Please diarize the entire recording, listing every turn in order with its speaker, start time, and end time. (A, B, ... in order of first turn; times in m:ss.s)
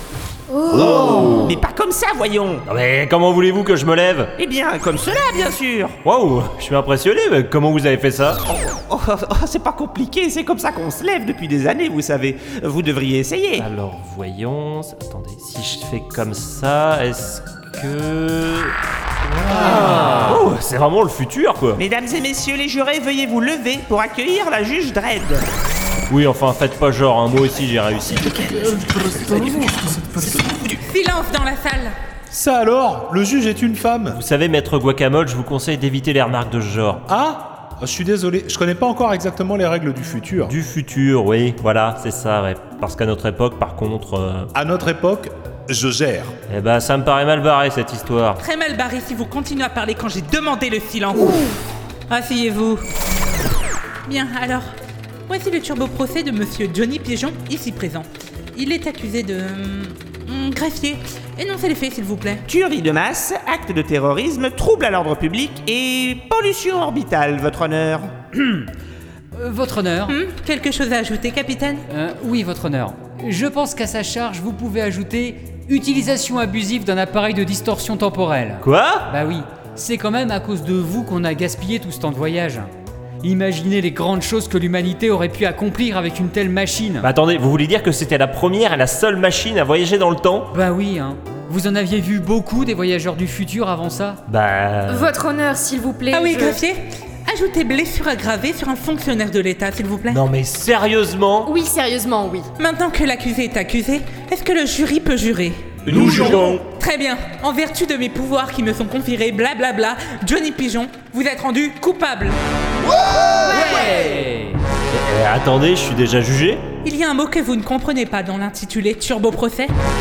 0:00.7-0:02.6 A
0:02.6-0:04.3 B
0:04.4-0:06.0 A
0:06.0-0:08.4 B
0:08.5-0:13.7 A
0:13.6-0:18.8 B
0:19.4-0:21.8 B
0:20.2-0:20.5 A
0:21.8-0:25.4 A
0:26.1-0:28.4 B
0:28.8-0:30.5 C
0:30.8-0:32.0 D
0:32.3-0:34.2 C
0:34.1-0:37.0 B
0:37.1-0:40.6 C
0:40.4-0:44.5 B
0:44.6-0:46.3 C
0:46.5-0:48.4 B
0:48.4-0:51.5 D
0:52.1-0:52.8 D
0:54.1-0:54.7 D
0:55.3-1:02.4 D
1:02.5-1:08.1 A
1:08.4-1:08.7 E
1:09.4-1:10.2 E
1:10.1-1:11.8 D
1:11.9-1:22.7 E
1:18.6-1:19.1 B
1:23.2-1:27.1 E
1:27.0-1:30.5 B
1:30.5-1:34.2 E
1:34.3-1:35.1 B
1:35.0-1:36.6 F
1:36.1-1:40.2 D
1:40.1-1:41.5 B
1:41.5-1:42.4 F
1:42.6-1:45.8 D
1:45.9-1:46.6 B
1:45.9-1:46.5 C
1:46.6-1:52.4 D
1:53.4-1:54.6 E
1:54.9-1:56.6 B
1:56.8-1:59.7 D